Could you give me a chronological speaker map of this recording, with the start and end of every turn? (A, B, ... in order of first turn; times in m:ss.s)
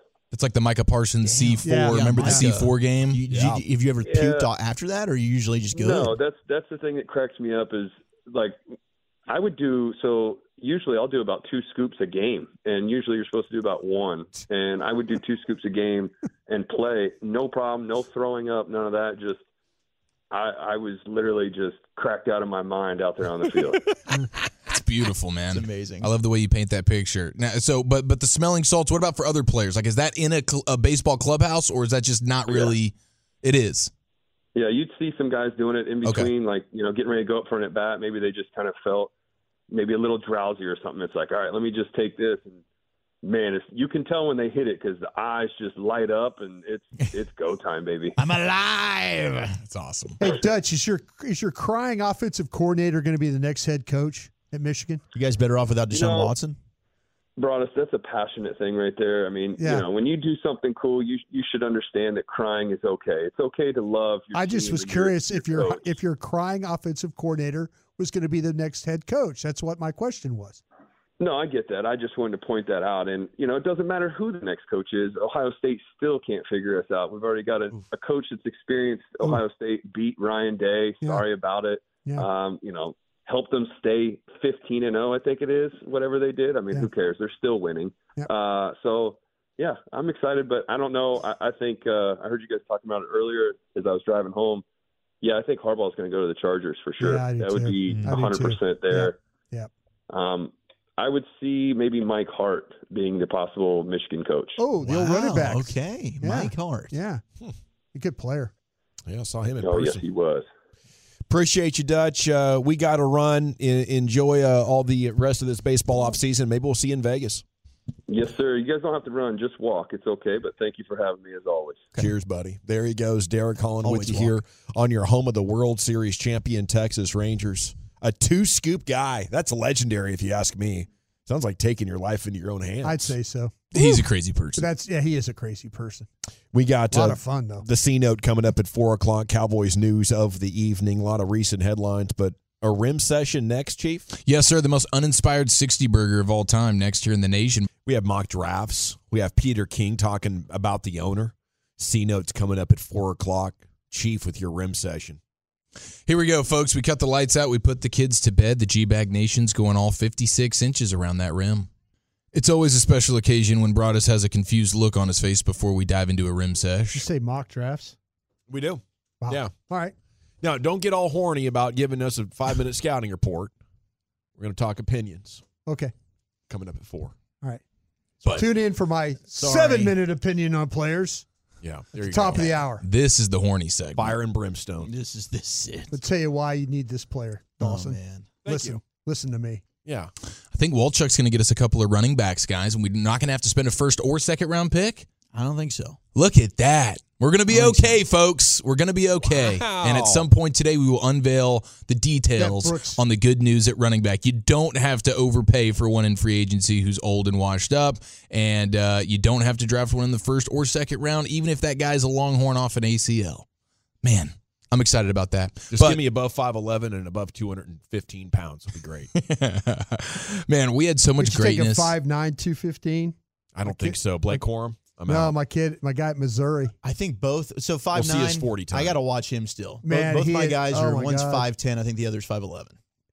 0:00.3-0:03.2 A
0:01.2-0:06.2 B
0:01.6-0:02.4 C
0:03.3-0:03.6 D
0:04.1-0:04.5 E
0:05.8-0:08.6 E
0:09.3-0:19.4 E
0:20.3-0:23.9 E
0:24.7-0:33.9 A
0:25.5-0:26.1 B
0:32.5-0:32.7 E
0:34.6-0:39.1 E
0:36.0-0:36.3 A
0:39.7-0:42.6 E
0:43.2-0:48.2 E
0:48.2-0:49.6 B
0:49.6-0:50.2 A
0:50.2-0:55.0 C
0:55.1-0:56.6 B
0:55.9-0:56.3 E
0:57.4-1:06.0 E
0:59.6-0:59.8 C
1:04.3-1:10.6 C
1:11.2-1:34.6 E
1:35.2-1:39.1 E
1:37.0-1:39.7 C
1:37.9-1:38.2 B
1:40.1-1:44.6 E
1:44.6-1:47.2 C
1:44.8-1:47.0 B
1:47.9-1:48.5 C
1:49.1-1:50.0 D
1:49.6-1:50.5 E
1:51.3-1:57.4 D
1:58.1-2:01.9 E
2:02.0-2:13.2 D
2:03.8-2:04.4 B
2:12.8-2:14.0 C
2:13.7-2:14.7 A
2:14.6-2:16.1 C
2:16.5-2:24.1 D
2:16.9-2:17.6 C
2:24.2-2:27.7 A
2:27.8-2:35.2 D
2:36.1-2:41.7 A
2:42.3-2:47.0 A
2:46.9-2:48.0 C
2:48.5-2:49.5 D
2:49.2-2:49.9 C
2:50.4-2:53.5 D
2:54.4-2:55.4 D
2:55.7-2:55.9 C
2:56.5-2:57.2 D
2:58.2-2:58.5 D
2:58.3-3:01.2 C
2:59.4-3:00.0 D
3:01.6-3:02.6 D
3:02.1-3:02.8 C
3:02.8-3:04.2 A
3:04.0-3:04.9 D
3:04.8-3:06.0 B
3:05.9-3:09.6 C
3:07.6-3:08.3 B
3:08.4-3:08.8 D
3:09.8-3:10.1 D
3:10.5-3:15.1 A
3:15.3-3:16.0 B
3:16.2-3:33.5 A
3:17.5-3:18.0 B
3:19.2-3:20.3 D
3:22.4-3:23.0 C
3:34.0-3:36.0 A
3:35.7-3:39.1 D
3:39.1-3:41.9 A
3:41.2-3:43.2 C
3:43.5-3:45.4 D
3:43.7-3:46.7 C
3:46.8-3:52.8 B
3:47.9-3:48.9 D
3:49.8-3:51.5 C